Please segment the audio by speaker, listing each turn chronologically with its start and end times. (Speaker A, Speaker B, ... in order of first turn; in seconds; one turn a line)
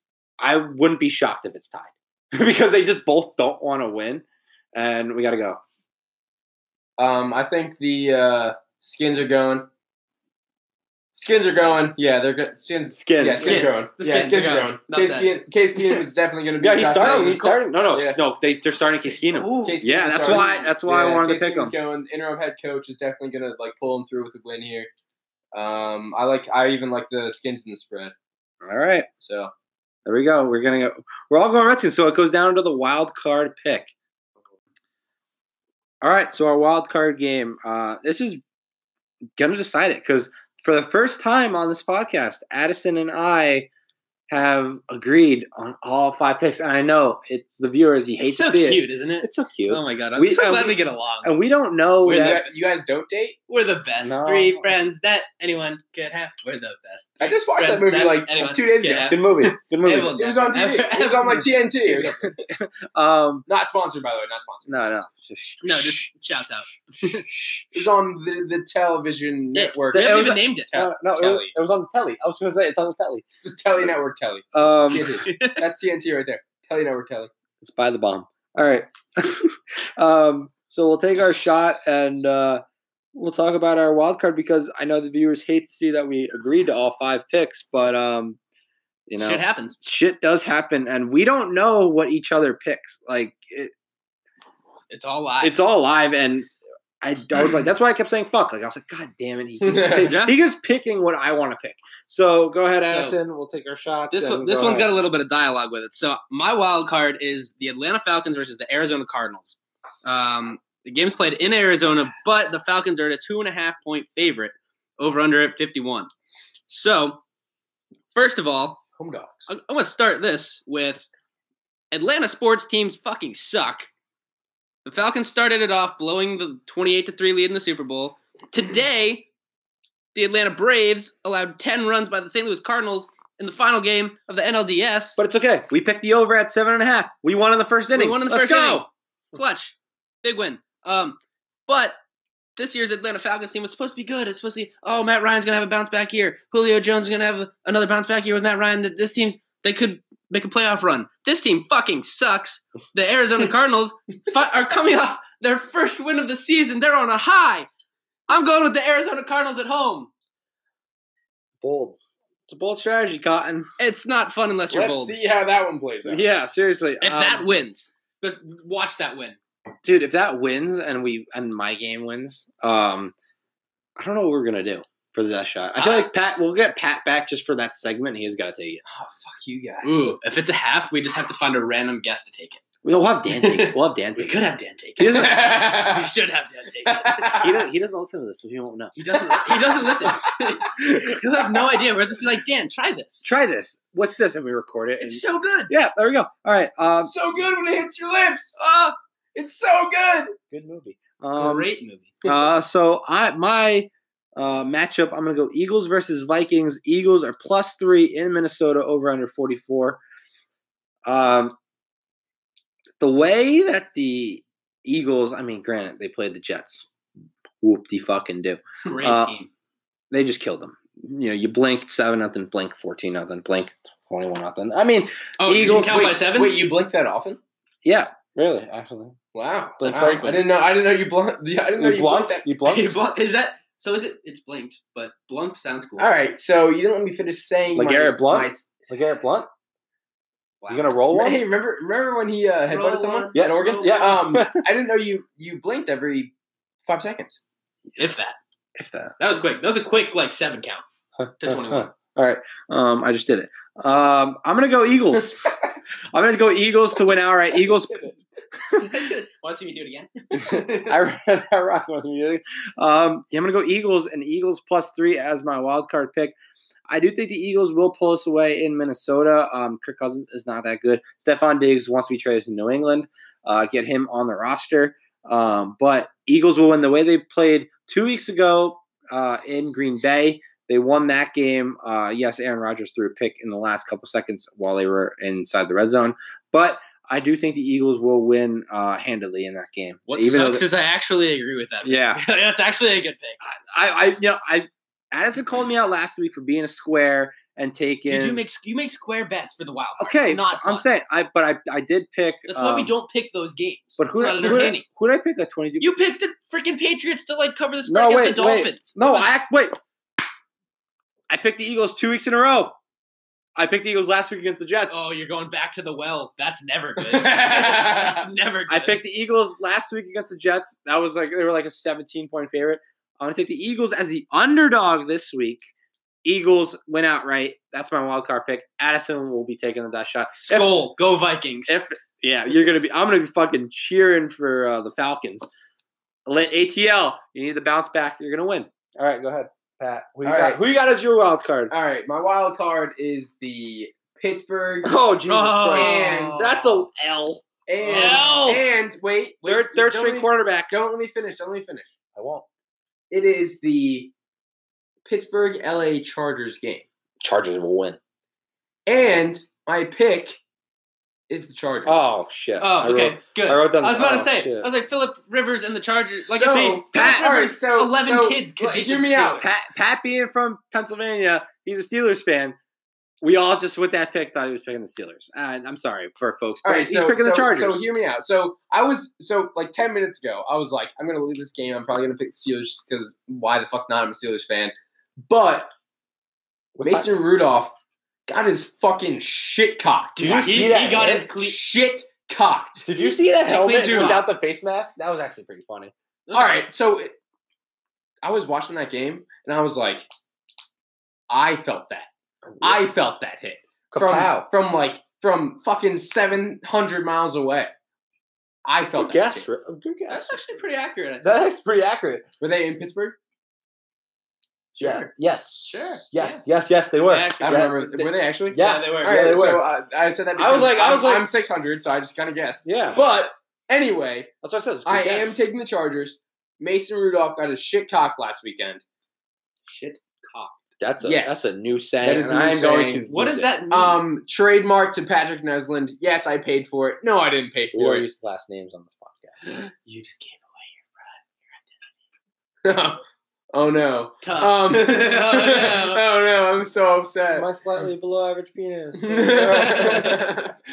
Speaker A: 0.4-5.6
Speaker B: 7.0-9.7
Speaker B: 11.1-18.2
Speaker A: 12.9-13.7
Speaker C: 13.4-15.3
Speaker A: 16.6-21.8
Speaker C: 17.0-17.6
Speaker C: 19.2-19.8
Speaker B: 19.6-24.9
Speaker B: 25.5-28.1
Speaker A: 28.6-29.1
Speaker B: 29.2-29.5
Speaker A: 30.1-33.9
Speaker A: 36.0-38.4
Speaker A: 39.4-43.7
Speaker A: 44.3-52.4
Speaker C: 48.2-51.4
Speaker C: 52.0-52.5
Speaker B: 52.1-53.4
Speaker C: 53.5-61.4
Speaker A: 54.0-54.7
Speaker B: 57.2-59.5
Speaker A: 59.1-60.2
Speaker B: 60.1-62.4
Speaker A: 61.9-63.5
Speaker B: 63.5-64.8
Speaker A: 64.7-66.1
Speaker C: 65.6-67.2
Speaker A: 67.0-67.9
Speaker B: 67.7-71.5
Speaker C: 69.5-70.9
Speaker A: 69.9-73.2
Speaker B: 73.3-77.3
Speaker A: 74.5-75.3
Speaker C: 74.9-75.6
Speaker A: 77.6-82.6
Speaker A: 83.1-88.4
Speaker A: 89.1-93.7
Speaker C: 89.2-89.8
Speaker C: 94.9-95.6
Speaker A: 95.4-104.9
Speaker B: 99.6-100.2
Speaker C: 100.0-100.4
Speaker C: 102.8-103.2
Speaker C: 104.1-116.1
Speaker C: 116.7-117.2
Speaker C: 118.2-118.8
Speaker B: 119.0-119.5
Speaker C: 119.5-121.1
Speaker C: 121.9-123.9
Speaker C: 124.8-129.3
Speaker C: 130.1-135.2
Speaker A: 135.2-138.9
Speaker C: 137.9-142.0
Speaker C: 142.6-157.7
Speaker C: 158.3-160.1
Speaker A: 161.6-163.7
Speaker C: 163.8-165.2
Speaker B: 164.7-166.2
Speaker A: 166.1-167.5
Speaker C: 167.0-169.4
Speaker A: 169.8-173.1
Speaker A: 174.0-178.8
Speaker C: 175.8-176.1
Speaker B: 178.9-180.2
Speaker C: 179.8-182.6
Speaker A: 182.8-184.4
Speaker C: 183.3-187.4
Speaker A: 185.0-185.4
Speaker B: 185.1-186.1
Speaker B: 186.9-187.6
Speaker A: 187.3-189.6
Speaker C: 189.0-193.3
Speaker B: 189.5-190.3
Speaker A: 193.2-197.1
Speaker C: 195.0-195.7
Speaker B: 197.0-198.6
Speaker C: 198.6-198.9
Speaker B: 199.3-200.4
Speaker A: 200.5-201.7
Speaker C: 201.3-202.2
Speaker A: 202.2-210.0
Speaker A: 211.1-211.6
Speaker A: 213.0-216.9
Speaker A: 217.6-219.3
Speaker C: 218.8-219.5
Speaker A: 220.1-226.2
Speaker C: 225.4-226.7
Speaker B: 225.8-227.4
Speaker A: 227.8-229.2
Speaker B: 229.3-232.5
Speaker A: 229.8-230.4
Speaker C: 229.9-230.2
Speaker A: 231.8-233.0
Speaker C: 232.7-236.1
Speaker B: 236.0-238.9
Speaker A: 237.7-239.5
Speaker A: 240.7-241.4
Speaker B: 241.1-246.3
Speaker C: 242.7-244.2
Speaker A: 243.3-244.6
Speaker B: 246.9-247.4
Speaker C: 248.0-248.4
Speaker A: 248.8-249.2
Speaker C: 249.2-250.8
Speaker A: 251.2-255.6
Speaker C: 251.4-251.9
Speaker A: 256.1-258.0
Speaker B: 257.5-258.2
Speaker C: 258.7-260.9
Speaker A: 260.4-266.4
Speaker A: 266.9-290.6
Speaker C: 290.1-293.4
Speaker A: 291.8-292.2
Speaker A: 293.4-298.4
Speaker C: 298.1-300.9
Speaker A: 300.0-302.9
Speaker C: 302.5-304.9
Speaker A: 304.0-305.9
Speaker C: 305.8-309.3
Speaker A: 307.9-309.8
Speaker A: 311.3-312.8
Speaker A: 313.6-315.1
Speaker C: 314.9-319.0
Speaker B: 317.0-318.2
Speaker A: 318.7-325.6
Speaker A: 326.2-330.8
Speaker C: 330.4-331.8
Speaker A: 331.7-335.5
Speaker A: 336.3-341.7
Speaker B: 340.2-340.6
Speaker B: 341.7-345.0
Speaker A: 344.8-348.6
Speaker C: 345.3-346.8
Speaker B: 345.7-346.5
Speaker B: 347.7-351.9
Speaker C: 347.8-348.6
Speaker A: 349.4-350.7
Speaker A: 352.1-352.5
Speaker B: 353.1-354.1
Speaker B: 355.1-356.9
Speaker A: 357.2-358.0
Speaker B: 358.9-360.4
Speaker B: 361.3-362.1
Speaker A: 361.9-364.7
Speaker C: 362.6-369.5
Speaker B: 366.3-369.6
Speaker A: 366.4-367.5
Speaker A: 369.4-372.6
Speaker A: 373.2-377.8
Speaker B: 376.6-384.7
Speaker B: 385.3-385.7
Speaker A: 386.8-387.1
Speaker B: 386.8-387.8
Speaker B: 388.3-392.9
Speaker C: 390.2-391.6
Speaker A: 390.2-391.3
Speaker A: 392.9-395.9
Speaker C: 393.4-394.3
Speaker B: 393.7-394.2
Speaker C: 396.3-396.7
Speaker B: 396.3-397.1
Speaker B: 398.2-400.1
Speaker B: 401.3-402.1
Speaker A: 402.5-402.9
Speaker B: 402.6-407.7
Speaker A: 403.9-404.5
Speaker B: 408.6-409.5
Speaker A: 409.0-410.4
Speaker C: 410.1-411.4
Speaker A: 411.2-412.3
Speaker B: 412.4-413.2
Speaker A: 414.8-419.6
Speaker C: 414.8-415.1
Speaker C: 415.6-416.4
Speaker C: 417.0-418.0
Speaker B: 417.4-424.3
Speaker C: 418.6-419.4
Speaker A: 420.4-421.3
Speaker A: 422.6-423.0
Speaker A: 424.4-425.4
Speaker B: 424.9-428.8
Speaker C: 429.7-430.6
Speaker A: 430.8-433.5
Speaker B: 431.0-433.1
Speaker C: 433.1-434.0
Speaker B: 433.7-438.1
Speaker A: 437.7-439.4
Speaker C: 439.5-441.2
Speaker B: 442.6-443.0
Speaker B: 443.5-447.5
Speaker C: 444.2-446.0
Speaker A: 447.3-450.2
Speaker B: 449.0-450.6
Speaker C: 449.6-450.2